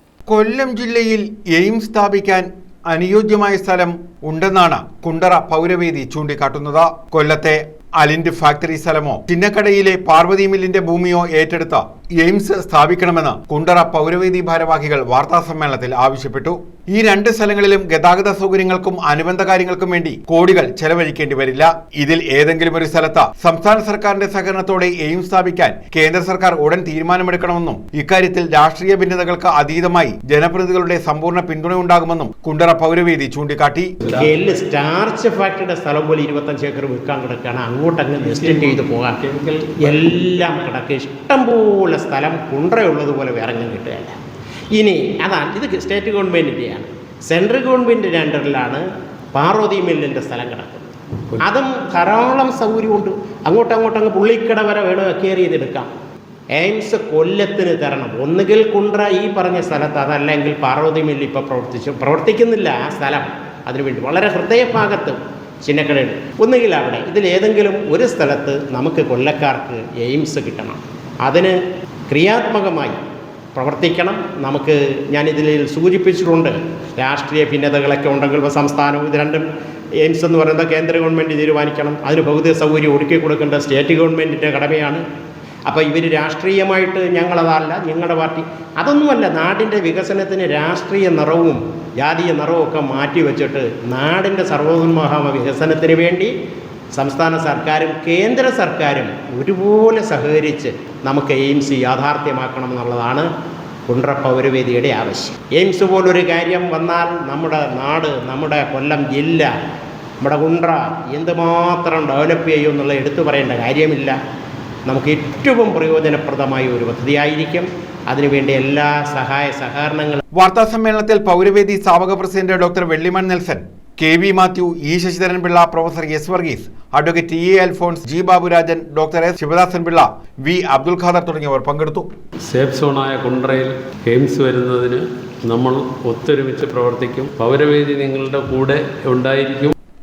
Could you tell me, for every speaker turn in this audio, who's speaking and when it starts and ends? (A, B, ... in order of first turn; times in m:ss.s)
0:00.3-0:34.0 A
0:34.0-0:34.4 B
0:34.1-0:39.2 C
0:38.2-0:40.4 B
0:39.8-0:44.2 C
0:44.7-0:50.9 C
0:51.4-0:55.9 C
0:56.5-1:11.6 C
1:12.1-1:13.0 C
1:13.6-1:19.5 C
1:20.0-1:25.0 C
1:25.7-1:36.3 C
1:36.9-1:43.3 C
1:43.9-1:49.5 C
1:50.2-1:54.2 C
1:54.9-2:00.2 C
2:00.3-2:12.1 A
2:12.5-2:19.7 B